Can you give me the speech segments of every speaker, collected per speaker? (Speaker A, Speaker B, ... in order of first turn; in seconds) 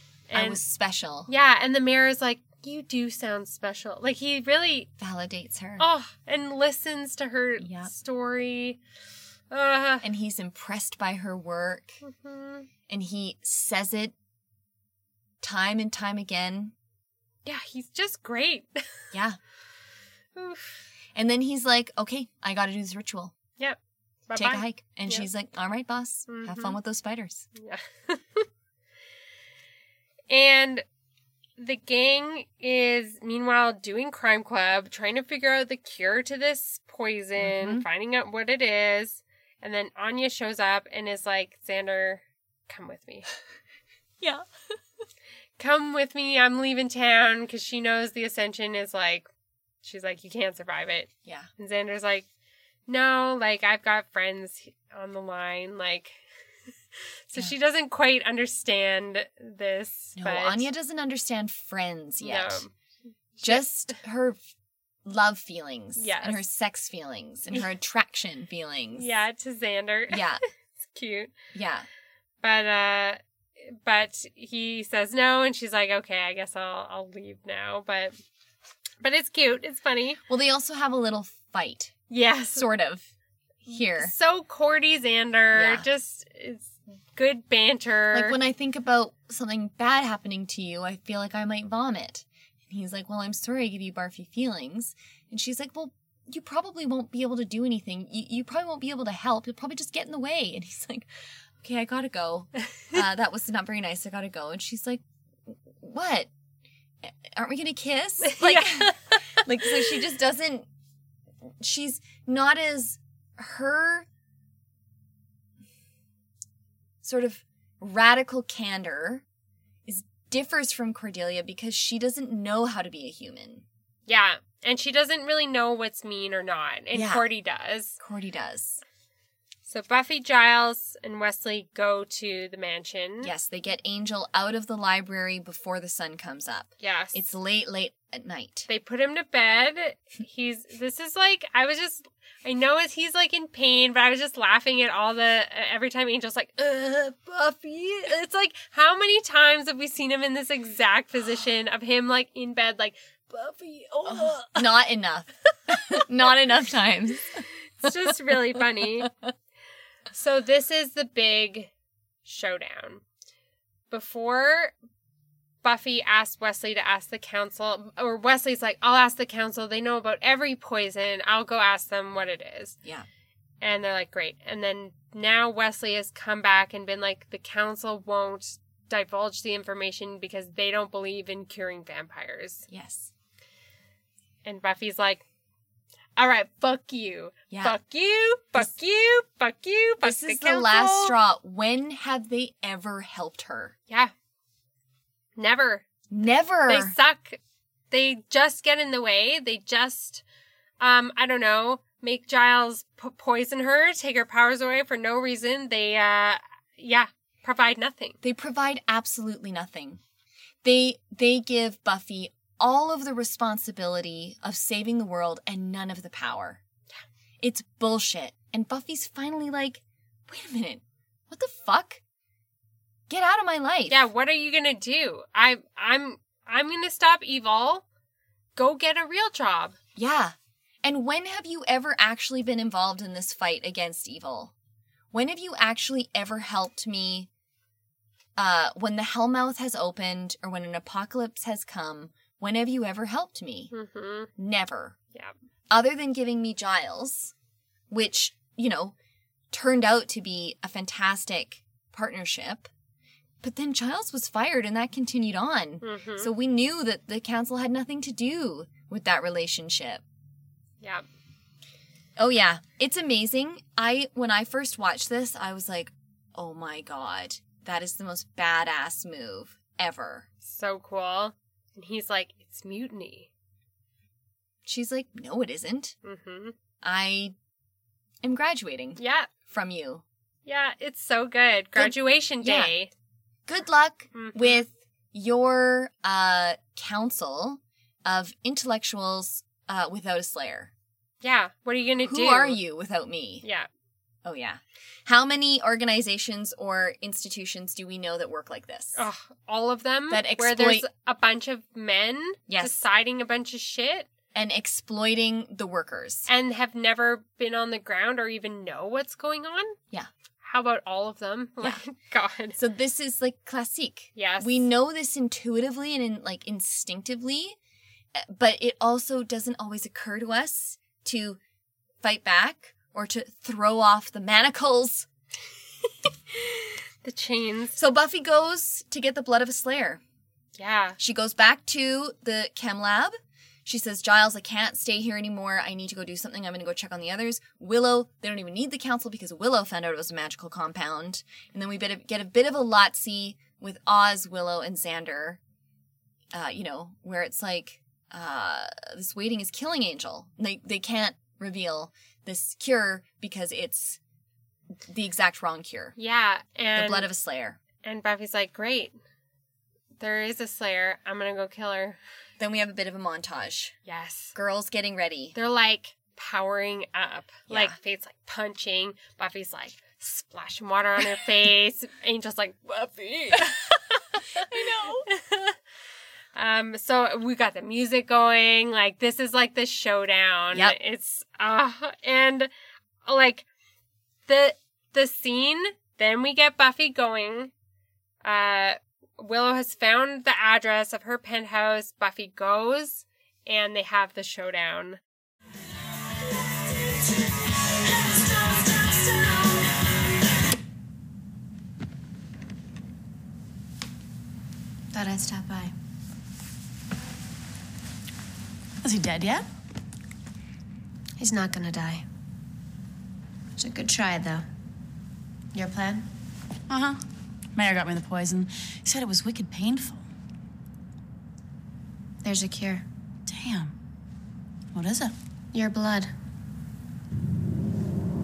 Speaker A: 0.3-0.6, 1.3-4.9, 5.8-8.8, 9.5-10.1, 12.0-12.7, 17.4-18.8, 20.4-20.8, 23.6-25.3, 26.3-26.8, 27.6-28.5, 30.3-30.8, 31.6-43.3, 45.6-49.3, 49.8-52.3, 52.9-56.2, 57.0-60.7, 62.2-62.7, 63.4-63.6, 66.0-66.4, 69.0-70.2, 70.9-71.3, 72.4-78.1, 79.0-80.2, 82.1-82.7, 83.7-88.4, 108.2-109.4, 124.1-128.0, 129.7-133.3, 136.8-137.2, 138.7-154.7, 157.8-159.1, 160.1-161.7, 162.2-163.0, 163.9-164.7, 165.6-172.8, 173.6-182.7, 184.4-185.2, 186.2-191.2, 195.4-195.8, 196.7-197.4, 197.9-200.2, 200.8-208.2, 223.9-227.8, 228.6-229.8, 243.7-244.3, 255.8-256.3, 270.4-273.3, 276.0-276.6, 279.0-279.3, 280.5-282.9, 284.1-284.6, 291.2-292.6, 293.4-293.7, 298.9-304.1, 306.3-309.8, 310.4-312.6, 314.1-314.7, 326.3-327.8, 330.6-331.0, 356.0-357.1, 357.8-358.9, 360.0-362.0, 363.9-364.4, 365.4-374.0, 375.1-375.6, 376.4-382.5, 383.1-383.5, 384.3-387.5, 388.2-395.0
Speaker B: 0.3-1.3, 5.0-5.9, 7.6-7.9, 10.0-12.0, 12.9-14.1, 15.4-16.7, 19.1-19.4, 21.1-23.3, 24.4-27.5, 37.4-37.9, 60.2-62.7, 63.4-64.4, 65.0-69.1, 70.1-70.4, 71.5-71.9, 80.3-81.9, 82.5-83.1, 83.7-84.1, 85.5-85.9, 88.1-106.3, 107.0-110.7, 111.6-114.1, 117.0-119.2, 119.9-123.7, 126.9-127.3, 128.0-128.8, 133.2-138.7, 154.1-159.1, 182.7-183.1, 187.5-187.8, 190.0-193.8, 196.1-197.0, 208.2-210.0, 210.6-216.6, 217.4-222.0, 223.1-224.1, 230.0-234.5, 235.1-237.3, 238.4-243.7, 244.4-245.0, 245.7-247.3, 247.9-248.9, 249.5-252.7, 253.4-260.0, 262.2-270.3, 274.6-276.0, 276.8-277.3, 278.2-280.0, 281.8-282.8, 283.5-290.7, 292.1-293.4, 294.2-299.1, 300.1-300.9, 302.5-302.8, 304.4-306.3, 312.6-317.6, 318.1-321.4, 322.0-325.1, 327.8-330.0, 331.0-345.4, 346.3-354.0, 354.9-356.0, 356.8-357.6, 362.4-363.8, 364.4-365.4, 367.5-367.8, 374.4-375.1
Speaker C: 404.9-405.7, 411.2-412.1, 413.6-414.5, 415.5-416.1, 422.2-422.9, 425.5-426.1
Speaker D: 408.8-409.5, 416.7-417.0, 417.6-420.1, 423.3-423.8, 424.7-425.1